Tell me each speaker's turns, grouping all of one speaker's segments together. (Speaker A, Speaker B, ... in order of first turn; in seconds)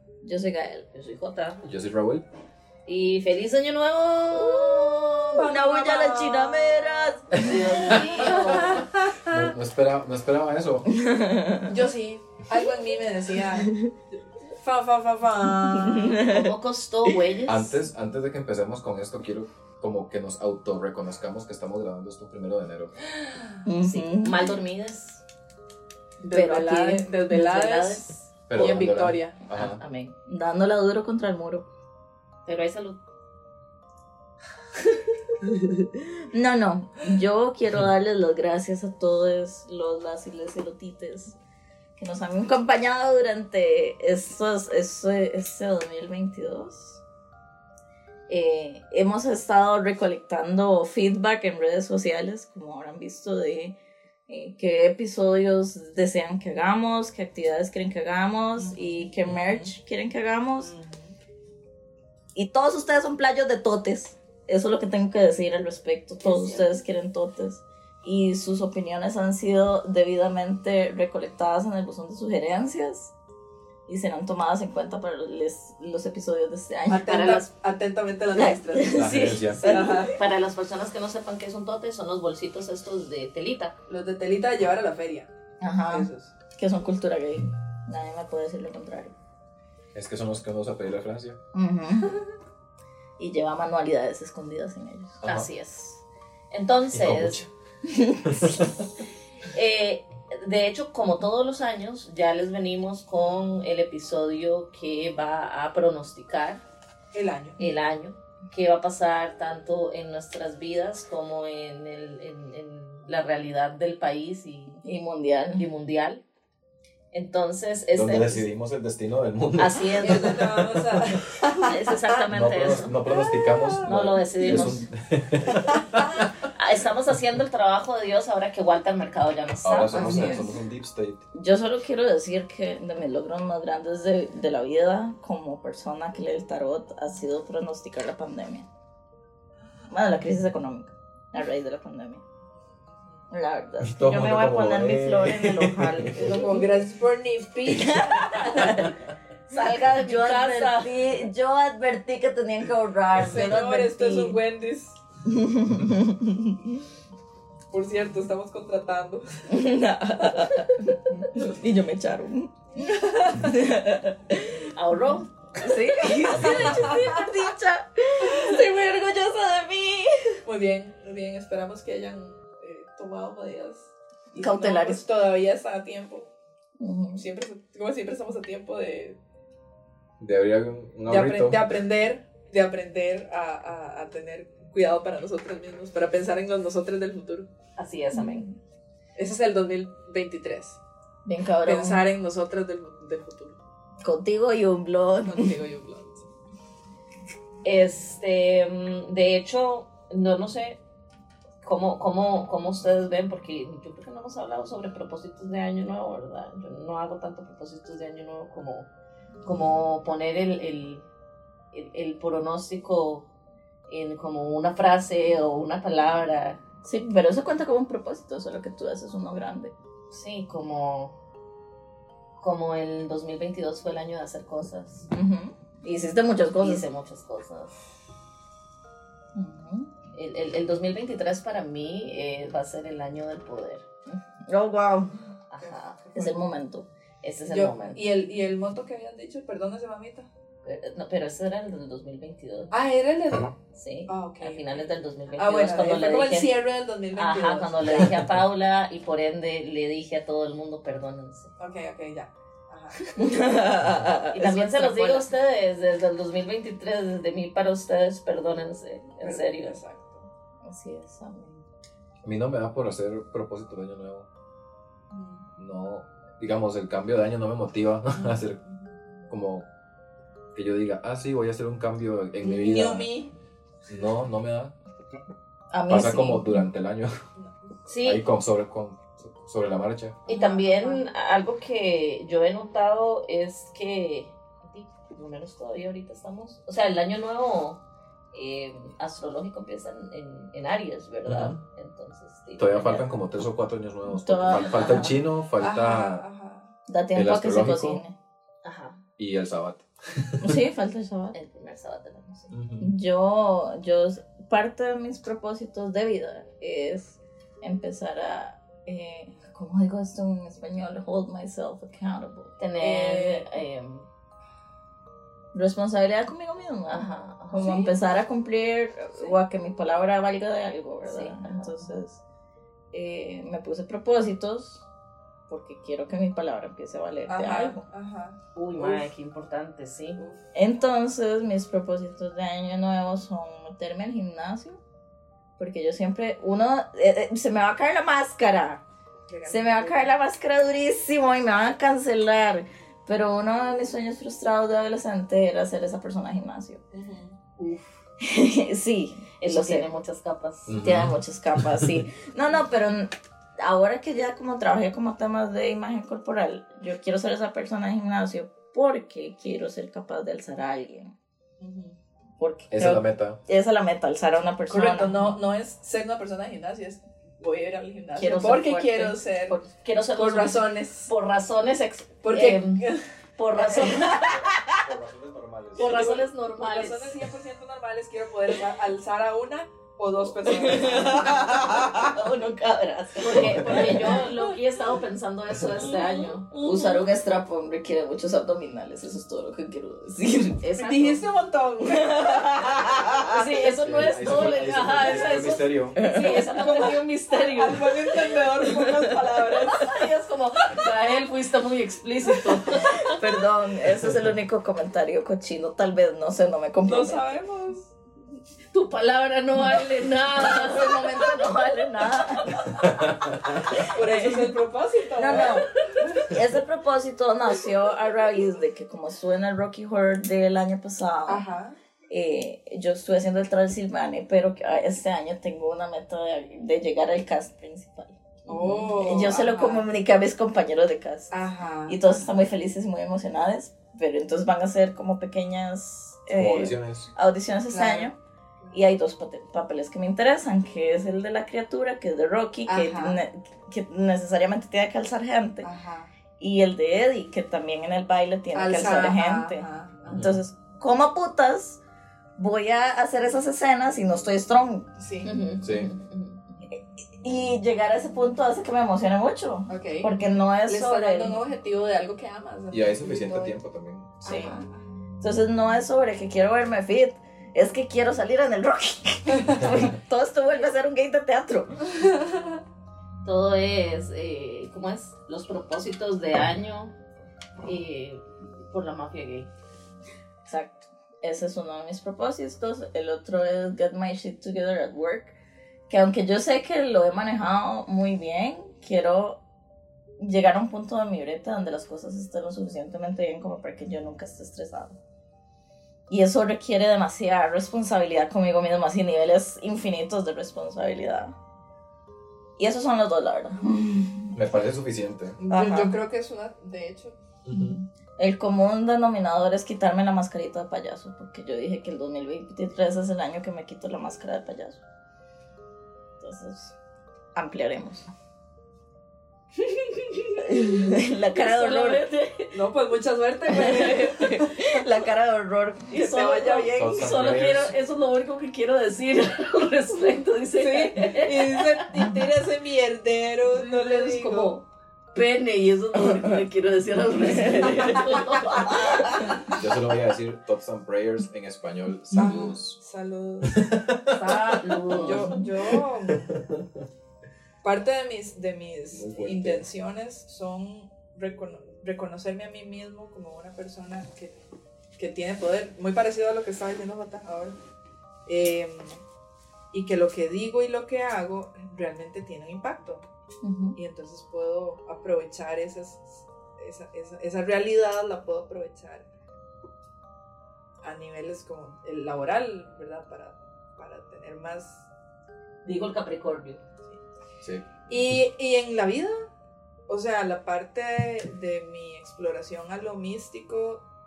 Speaker A: 0.2-0.9, 4.3-8.8, 10.9-11.8, 13.6-13.9, 15.7-17.1, 23.6-24.5, 26.3-26.6, 30.2-31.6, 36.2-41.4, 42.0-47.0, 48.3-53.8, 54.3-60.7, 62.3-73.1, 73.9-77.1, 78.3-80.2, 85.6-89.1, 91.5-92.1, 93.2-95.2, 97.8-98.6, 114.8-115.6, 121.7-122.9, 131.3-138.7, 139.9-142.2, 143.3-146.7, 147.6-148.9, 149.5-154.4, 155.2-156.8, 159.5-164.7, 165.6-170.4, 174.3-175.0, 176.8-177.2, 188.1-188.5, 191.2-192.0, 194.0-195.6, 216.8-219.7, 225.1-226.8, 229.3-229.9, 234.1-235.2, 236.1-236.9, 253.2-255.3, 260.6-261.6, 275.7-276.6, 294.1-295.2, 296.9-298.1, 300.4-301.4, 302.8-313.5, 315.5-322.2, 322.9-324.9, 325.5-327.8, 330.5-334.8, 335.6-338.8, 339.4-346.8, 348.2-349.9, 350.8-361.1, 362.4-365.3, 368.1-369.7, 373.6-374.6, 380.4-384.3, 385.9-390.6, 391.8-393.6, 394.4-395.2, 395.9-396.9, 398.6-399.1, 402.8-407.3, 409.6-412.6, 413.6-414.6, 415.1-421.4, 422.1-438.1, 438.7-445.7, 446.4-451.8, 452.4-454.9, 456.6-461.4, 464.2-464.6, 465.2-471.9, 480.4-485.3, 485.9-489.4, 490.2-495.0, 496.1-501.3, 502.6-504.4, 505.5-506.0, 507.5-514.8, 516.2-516.7, 517.3-518.1, 520.4-522.1, 523.5-526.0, 536.0-536.4, 537.2-539.5, 542.1-542.4, 544.9-545.5, 563.4-563.8
Speaker B: 0.9-1.6, 2.9-5.5, 7.3-8.9, 16.1-17.8, 23.8-25.2, 26.3-28.3, 29.5-30.1, 32.5-33.0, 66.2-66.8, 77.1-77.5, 80.1-83.7, 95.2-97.5, 99.5-106.6, 107.6-114.8, 115.5-116.2, 117.1-118.5, 119.6-120.4, 121.6-122.9, 123.8-124.8, 126.4-130.5, 149.5-150.9, 164.7-165.7, 187.8-188.5, 197.6-200.8, 201.6-208.9, 209.4-211.1, 211.7-213.3, 213.9-216.6, 220.1-221.2, 222.4-225.1, 226.4-227.7, 230.1-233.8, 235.5-236.0, 237.2-238.0, 240.6-242.7, 243.7-246.5, 247.1-251.5, 254.3-259.8, 277.9-278.2, 280.3-287.8, 288.3-293.1, 294.7-295.1, 298.6-299.0, 301.3-302.5, 312.6-314.1, 316.9-317.8, 321.1-321.8, 328.5-330.2, 347.6-347.9, 349.4-350.8, 369.7-372.9, 373.4-374.2, 375.8-377.1, 383.1-386.9, 390.6-391.2, 393.3-398.3, 399.7-403.2, 408.7-412.8, 415.4-416.2, 455.2-456.6, 473.2-476.9, 477.6-479.5, 519.6-522.6, 523.8-524.3, 525.9-531.9, 533.5-539.5, 544.1-545.4, 575.6-576.6
Speaker C: 1.6-2.2, 9.3-10.9, 17.4-22.9, 28.5-29.8, 78.9-79.7, 89.9-91.4, 96.9-97.5, 98.2-98.6, 117.9-121.4, 122.3-126.0, 129.6-131.2, 143.8-146.2, 180.2-181.6, 247.8-248.2, 262.2-264.3, 265.6-268.6, 269.3-269.7, 270.5-273.1, 273.9-274.7, 275.9-277.1, 278.0-280.2, 291.2-291.6, 292.6-296.2, 297.1-298.0, 299.2-300.6, 302.5-302.9, 350.7-352.0, 362.7-363.4, 374.1-376.0, 383.3-383.6, 393.7-396.0, 412.8-413.8, 436.3-437.1, 455.6-455.9, 462.7-464.2, 504.3-505.4, 507.4-507.8, 526.7-527.7, 539.4-542.8, 543.4-544.6, 546.2-546.6, 548.9-549.6, 577.4-577.7
Speaker D: 5.3-7.2, 8.2-9.4, 11.7-13.7, 14.6-16.2, 26.2-29.4, 58.5-59.7, 60.6-61.1, 76.9-80.2, 83.9-85.3, 85.9-86.3, 107.1-107.6, 120.0-121.9, 123.0-123.8, 125.7-126.3, 129.9-130.5, 142.8-143.2, 146.1-148.9, 153.2-155.0, 157.7-159.5, 162.8-163.5, 166.3-167.3, 168.2-168.6, 170.4-176.3, 177.2-179.2, 181.1-187.5, 189.2-190.8, 191.6-193.6, 195.2-196.3, 235.6-236.4, 237.5-240.3, 242.7-243.6, 244.1-247.9, 251.6-253.1, 259.2-260.3, 265.1-265.4, 268.1-268.7, 272.4-273.3, 280.3-281.0, 295.6-296.7, 317.6-317.9, 327.3-329.1, 330.2-330.5, 339.3-340.1, 346.9-347.3, 361.6-361.9, 364.7-369.6, 370.1-371.1, 372.2-373.0, 373.7-374.3, 375.8-382.0, 390.8-392.8, 396.0-400.0, 402.3-402.8, 406.8-407.9, 413.9-416.3, 421.2-421.8, 428.5-429.8, 431.3-432.0, 437.7-438.1, 442.7-443.2, 445.6-446.1, 448.5-450.2, 455.0-455.3, 459.7-463.6, 464.2-464.8, 472.0-472.6, 505.4-507.1, 522.5-524.8, 525.9-527.0, 530.6-534.5, 537.8-538.3, 542.1-543.6, 544.2-546.4, 547.6-554.3, 555.0-557.5, 558.2-559.0, 559.7-563.0, 563.8-569.1, 570.8-574.9, 577.9-579.3, 579.9-583.8